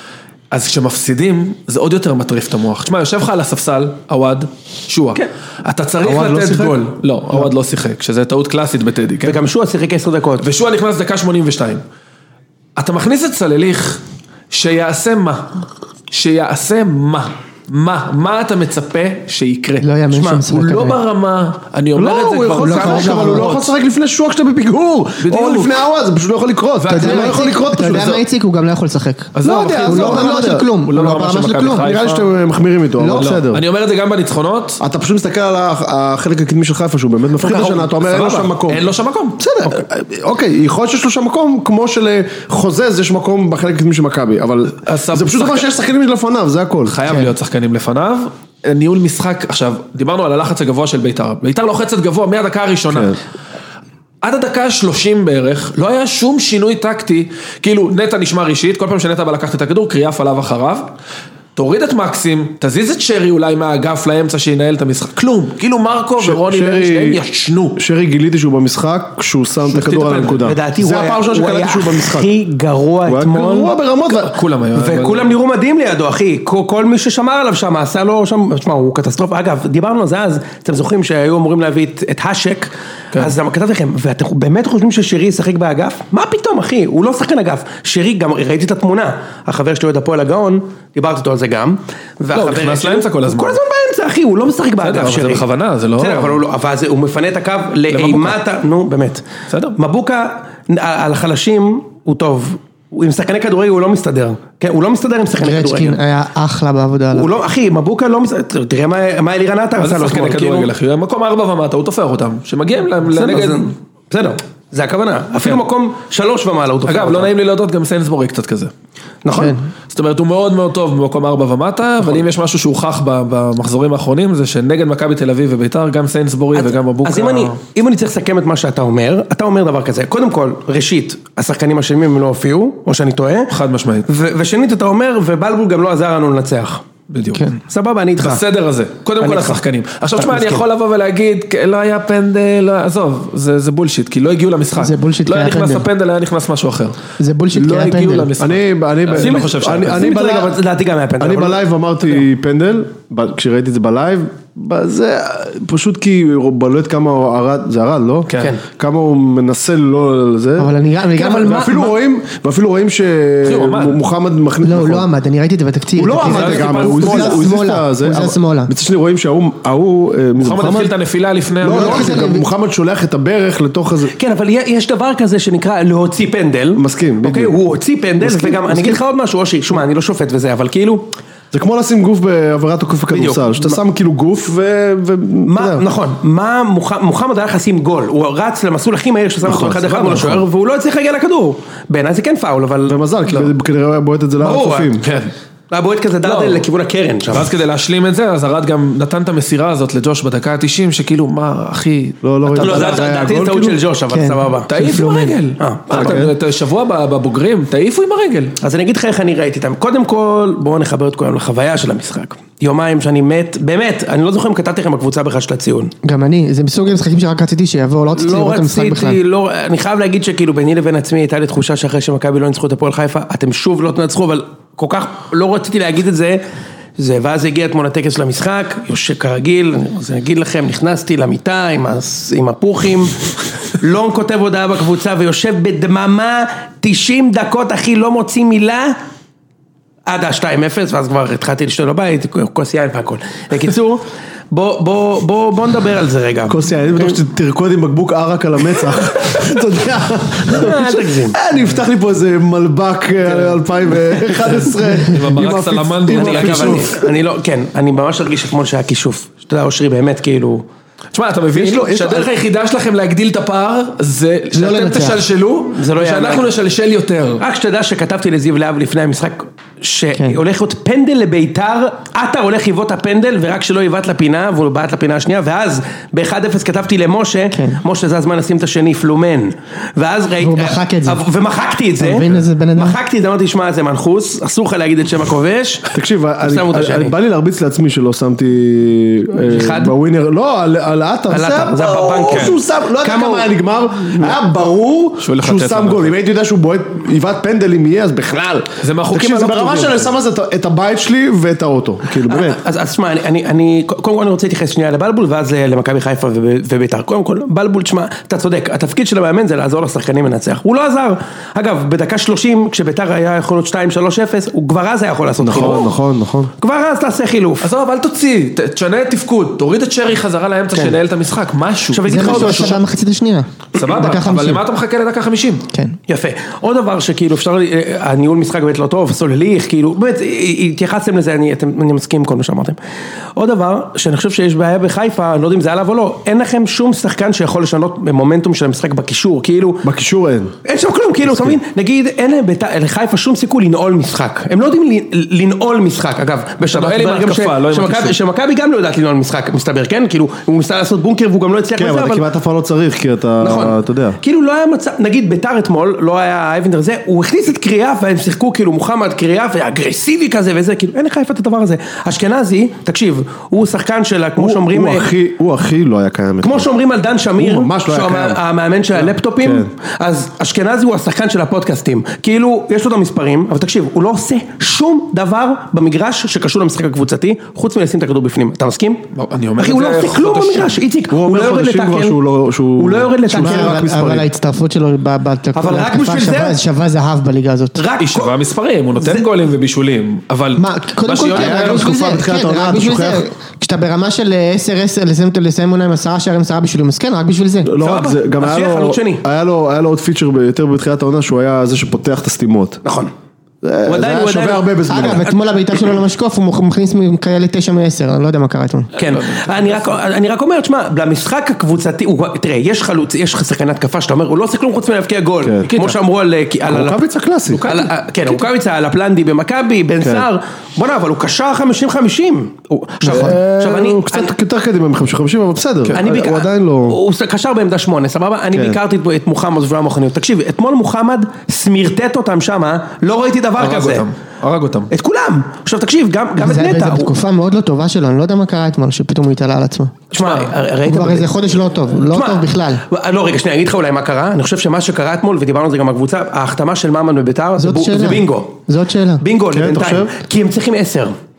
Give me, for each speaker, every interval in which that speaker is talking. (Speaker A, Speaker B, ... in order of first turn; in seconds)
Speaker A: 0.5-9.4, 10.4-11.8, 12.8-15.6, 16.1-23.5, 25.2-25.7, 26.8-27.4, 29.3-32.3, 33.1-34.8, 37.4-39.4, 44.8-45.7, 46.9-53.1, 54.2-60.9, 61.5-67.8, 69.7-70.5, 74.2-75.3, 92.3-93.6, 94.8-96.4, 97.9-98.4, 99.5-99.8, 109.8-113.7, 116.8-118.7, 119.9-127.6, 133.5-134.1, 137.1-137.5, 138.2-147.0, 147.5-150.1, 158.3-158.5, 163.4-164.0, 166.1-167.5, 170.4-172.2, 195.0-195.3, 196.2-196.6, 197.3-203.1, 204.7-208.5, 255.0-256.9, 261.1-267.4, 292.3-292.6, 295.2-296.1, 298.8-300.1, 317.6-322.7, 323.7-325.6, 346.7-348.1, 379.1-380.8, 388.0-392.0, 409.1-409.9, 415.7-416.0, 417.5-418.4, 433.6-434.9, 440.2-440.5
Speaker B: 6.0-6.8, 21.9-28.2, 29.4-30.7, 31.8-33.6, 34.8-38.9, 39.4-47.0, 52.9-53.2, 66.2-67.2, 67.7-72.3, 73.0-74.3, 148.4-150.6, 151.2-165.1, 165.9-170.9, 171.6-174.1, 176.8-177.5, 178.2-179.0, 181.5-185.8, 189.4-190.4, 192.9-195.1, 202.2-203.8, 205.9-206.3, 246.5-257.1, 261.5-262.3, 285.9-302.6, 315.4-316.5, 339.8-340.5, 351.8-354.2, 364.4-366.7, 367.4-368.4, 369.4-369.7, 381.1-384.3, 391.3-393.2, 397.6-402.8, 403.6-405.3, 415.4-415.7, 416.7-417.6, 420.0-420.2, 423.1-427.0, 428.5-428.8, 449.5-450.1
Speaker C: 6.0-6.5, 9.2-10.5, 20.1-20.4, 70.4-73.8, 74.7-95.4, 96.0-106.0, 107.1-110.7, 113.1-117.3, 119.2-119.6, 126.5-133.5, 134.1-136.8, 137.7-138.4, 139.2-139.6, 140.2-140.6, 149.1-151.6, 161.2-161.9, 174.1-181.1, 183.1-183.8, 185.4-193.0, 194.4-194.9, 195.7-197.5, 202.6-204.7, 205.6-206.2, 208.6-215.9, 218.1-226.4, 227.0-233.2, 233.8-239.0, 240.1-247.1, 250.5-251.4, 256.1-260.6, 265.7-266.5, 267.4-285.9, 286.4-287.1, 289.4-289.9, 291.3-293.5, 302.1-315.9, 316.6-317.7, 321.9-322.8, 326.1-332.8, 333.3-339.9, 340.6-352.2, 353.4-365.1, 366.4-379.1, 379.6-382.2, 382.8-383.9, 385.5-386.6, 387.8-388.4, 397.8-399.2, 402.8-403.1, 403.8-405.3, 408.9-417.0, 417.6-424.3, 425.9-434.1, 434.9-437.1, 440.1-448.6, 449.2-451.1
Speaker D: 19.8-21.0, 22.6-23.6, 26.9-32.1, 33.0-33.4, 105.4-107.3, 144.7-145.9, 147.2-148.3, 160.6-161.9, 164.6-168.7, 171.6-172.4, 204.1-205.4, 216.0-219.2, 264.5-265.2, 277.5-277.8, 280.4-281.2, 282.0-283.0, 322.1-324.6, 383.3-387.8, 390.6-397.7, 404.9-408.9, 436.4-439.9, 440.9-442.8, 447.6-449.2